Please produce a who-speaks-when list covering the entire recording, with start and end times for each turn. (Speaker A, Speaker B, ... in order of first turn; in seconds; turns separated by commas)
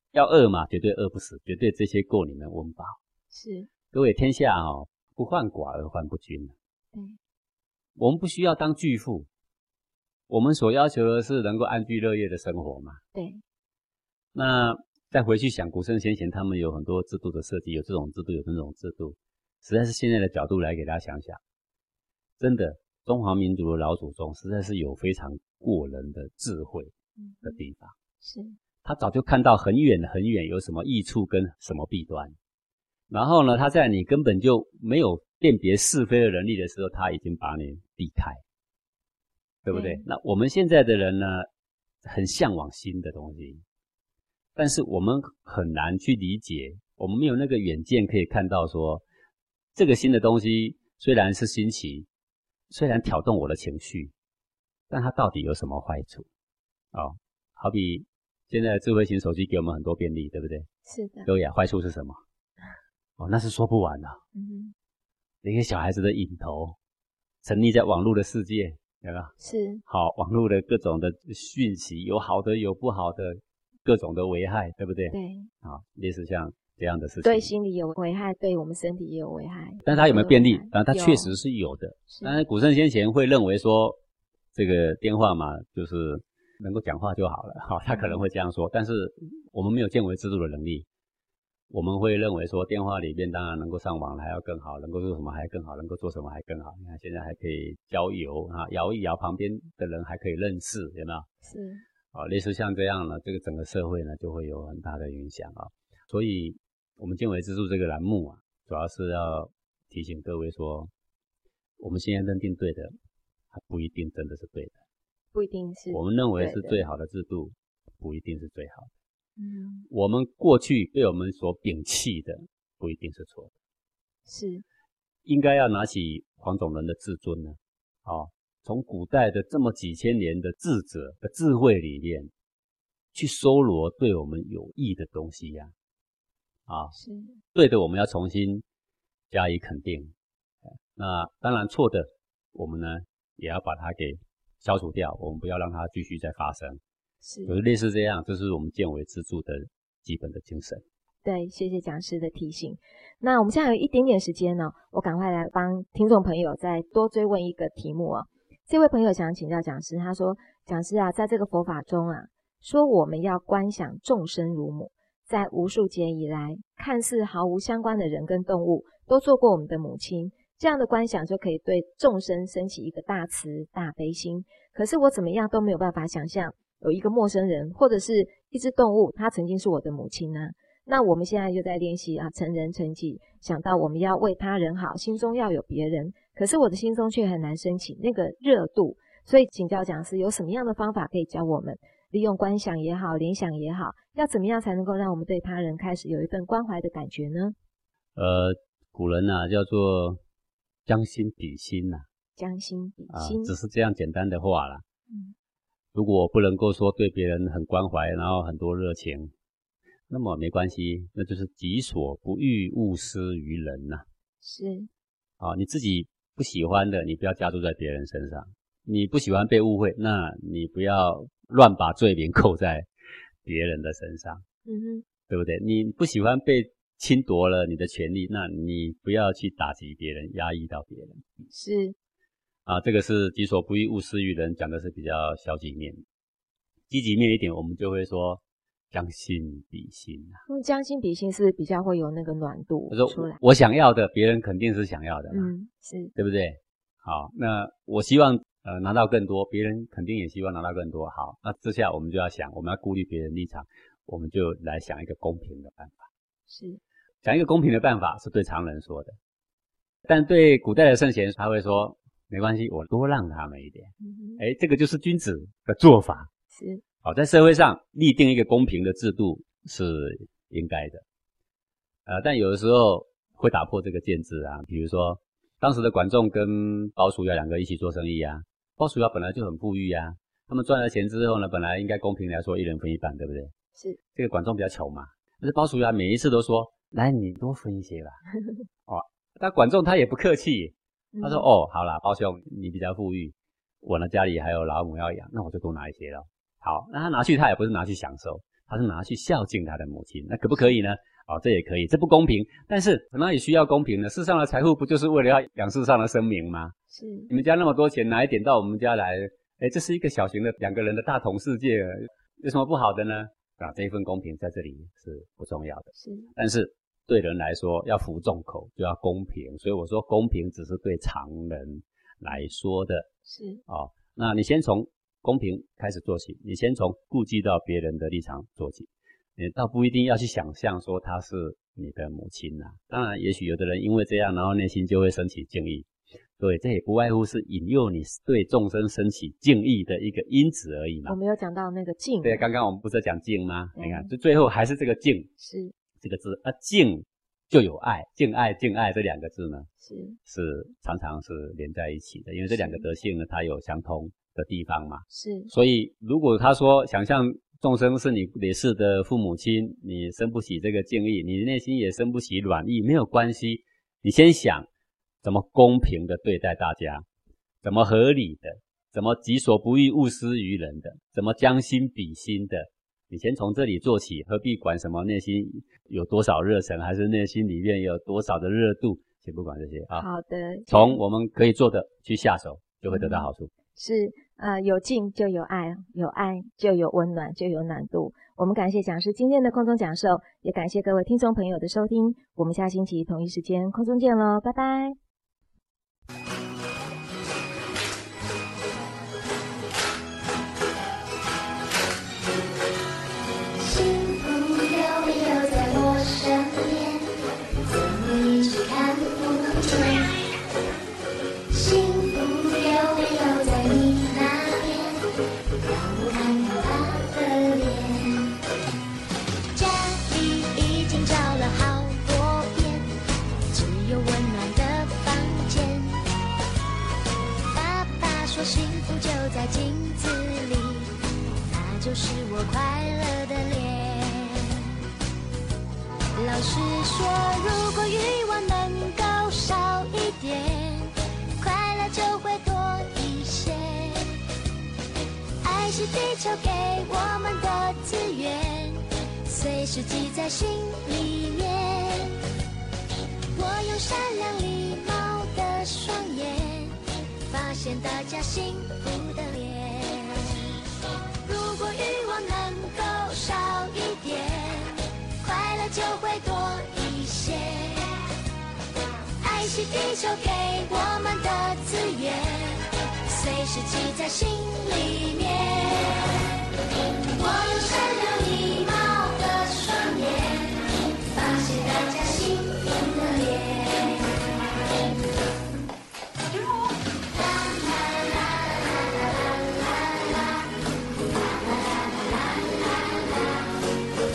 Speaker A: 0.1-3.0, Speaker B: 3.3-3.7, Speaker A: 3.9-6.5, Speaker B: 6.9-7.2, Speaker A: 8.0-9.3, Speaker A: 10.3-13.0, Speaker B: 13.1-13.4, Speaker A: 14.3-21.4, Speaker A: 22.4-27.9, Speaker B: 27.2-27.6, Speaker B: 28.2-28.6, Speaker A: 28.8-32.4, Speaker A: 33.1-38.4, Speaker A: 39.6-41.5, Speaker B: 39.7-40.0, Speaker A: 42.0-43.6, Speaker A: 44.6-49.0, Speaker A: 49.8-52.1, Speaker A: 52.7-54.1, Speaker A: 54.9-56.3, Speaker A: 56.9-60.7, Speaker B: 60.9-61.3, Speaker A: 61.3-62.2, Speaker A: 63.2-64.2, Speaker B: 64.3-64.8, Speaker A: 65.4-66.8, Speaker A: 67.4-69.3, Speaker B: 69.4-69.8, Speaker A: 69.9-77.5, Speaker B: 75.1-75.5, Speaker B: 77.2-81.3, Speaker A: 79.8-84.0, Speaker B: 82.1-82.4, Speaker A: 84.5-90.9, Speaker B: 87.9-88.2, Speaker A: 91.7-101.3, Speaker B: 101.4-101.8, Speaker A: 102.1-110.9, Speaker A: 111.8-112.9, Speaker A: 113.5-114.8, Speaker B: 115.3-116.8, Speaker A: 115.9-118.9, Speaker B: 119.4-119.9, Speaker A: 119.9-123.5, Speaker B: 124.3-124.7, Speaker A: 125.3-132.3, Speaker A: 133.1-135.7, Speaker A: 136.7-136.9, Speaker B: 136.9-137.4, Speaker A: 137.5-138.6, Speaker A: 139.3-140.1, Speaker A: 140.9-146.8, Speaker B: 147.2-147.6, Speaker A: 147.5-150.8, Speaker B: 151.2-197.6, Speaker A: 198.2-200.2, Speaker A: 200.9-202.1, Speaker B: 202.4-203.5, Speaker A: 203.1-204.8, Speaker B: 205.1-205.3, Speaker A: 205.9-209.3, Speaker A: 210.1-214.1, Speaker B: 214.4-214.9, Speaker A: 215.4-222.9, Speaker A: 223.4-224.4, Speaker B: 224.7-225.1, Speaker A: 225.3-231.2, Speaker B: 231.5-232.0, Speaker A: 232.7-236.0, Speaker A: 236.9-240.4, Speaker B: 240.5-243.4, Speaker A: 242.9-245.5, Speaker B: 245.3-246.1, Speaker A: 246.2-256.1, Speaker B: 256.5-256.8, Speaker A: 257.2-259.2, Speaker A: 260.1-266.3, Speaker B: 264.0-264.4, Speaker B: 266.5-266.8, Speaker A: 267.0-271.0, Speaker A: 272.1-283.5, Speaker A: 284.1-288.2, Speaker A: 288.9-306.8, Speaker B: 291.1-291.5, Speaker B: 306.9-307.3, Speaker A: 307.3-323.1, Speaker B: 315.9-316.3, Speaker B: 323.3-323.6, Speaker A: 323.7-335.9, Speaker A: 336.4-341.2, Speaker B: 341.1-342.5, Speaker A: 342.2-345.3, Speaker B: 343.8-344.1, Speaker B: 345.4-345.7, Speaker A: 346.0-349.7, Speaker B: 349.8-350.2, Speaker A: 350.3-364.7, Speaker B: 352.5-352.9, Speaker B: 355.1-355.5, Speaker A: 365.2-367.1, Speaker A: 367.6-380.1, Speaker B: 379.9-381.0, Speaker A: 380.7-383.5, Speaker B: 382.9-395.0, Speaker C: 403.6-410.2, Speaker C: 411.5-415.1, Speaker C: 415.6-418.4, Speaker C: 419.5-423.0, Speaker C: 423.5-426.0, Speaker C: 427.5-434.7, Speaker C: 436.1-444.1, Speaker C: 445.4-452.2, Speaker C: 453.3-460.5, Speaker C: 461.2-468.0, Speaker C: 469.2-476.4, Speaker C: 477.1-484.3, Speaker C: 486.9-493.6